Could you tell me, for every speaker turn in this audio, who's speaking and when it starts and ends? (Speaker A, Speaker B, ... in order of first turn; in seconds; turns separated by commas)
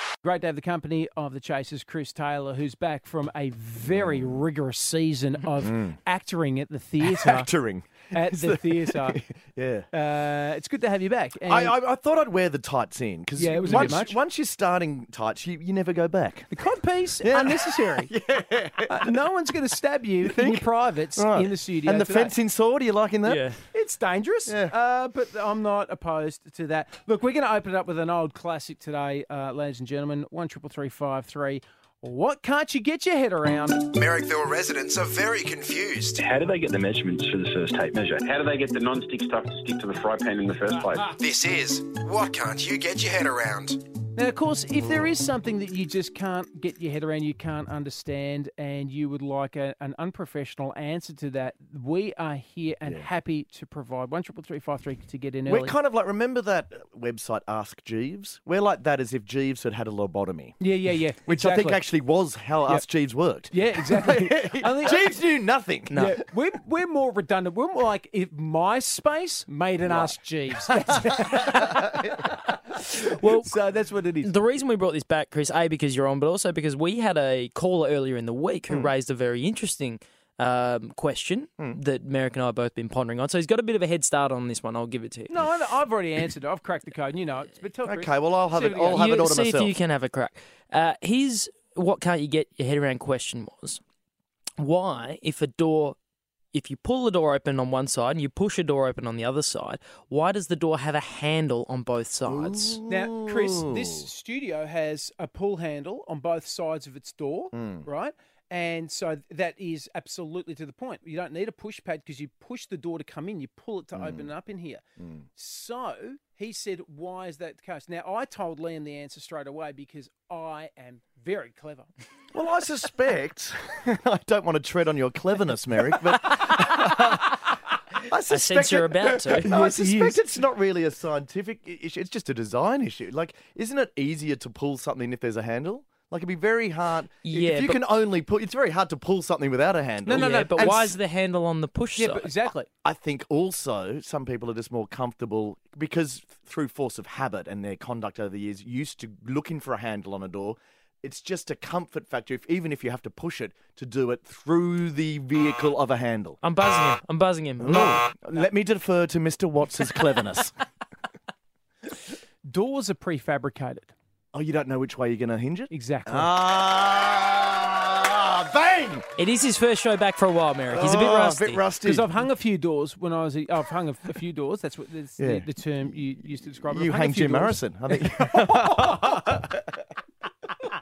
Speaker A: 0.2-7.5, Speaker B: 3.9-4.4, Speaker B: 5.6-6.0, Speaker B: 7.0-9.8, Speaker A: 8.1-9.2, Speaker A: 9.9-11.7, Speaker B: 11.5-16.5, Speaker A: 13.3-14.2, Speaker C: 13.7-14.0, Speaker A: 16.5-18.1, Speaker B: 17.2-19.1, Speaker A: 18.9-22.3, Speaker B: 20.2-20.6, Speaker B: 21.1-23.5, Speaker C: 23.2-23.6, Speaker A: 23.7-33.9, Speaker B: 24.5-24.8, Speaker D: 33.8-36.2, Speaker E: 36.2-41.1, Speaker D: 41.2-43.8, Speaker A: 44.1-55.7, Speaker B: 55.5-60.6, Speaker A: 60.6-61.8, Speaker B: 61.2-66.2, Speaker A: 63.5-65.0, Speaker C: 65.9-66.2, Speaker A: 65.9-72.0, Speaker B: 69.9-70.2, Speaker B: 71.0-72.3, Speaker A: 72.8-74.3, Speaker C: 73.2-73.5, Speaker C: 74.2-85.3, Speaker A: 85.3-89.0, Speaker B: 87.8-89.7, Speaker C: 88.8-93.8, Speaker C: 94.6-96.0, Speaker C: 96.5-102.8, Speaker B: 102.3-104.0, Speaker A: 102.9-114.8, Speaker B: 107.5-107.9, Speaker B: 113.9-114.3, Speaker B: 115.0-115.2, Speaker A: 115.3-121.9, Speaker B: 122.3-127.3, Speaker B: 128.1-141.0, Speaker C: 128.3-129.6, Speaker A: 129.4-130.2, Speaker C: 137.2-137.8, Speaker A: 140.0-140.8, Speaker C: 140.1-142.3, Speaker A: 142.0-142.7, Speaker B: 142.8-156.4, Speaker C: 156.4-158.1, Speaker B: 157.6-160.5, Speaker A: 162.5-163.9, Speaker B: 164.3-169.0, Speaker A: 165.7-166.3, Speaker C: 169.2-171.6, Speaker B: 170.7-172.1, Speaker A: 171.8-179.4, Speaker B: 175.2-175.5, Speaker B: 176.5-179.5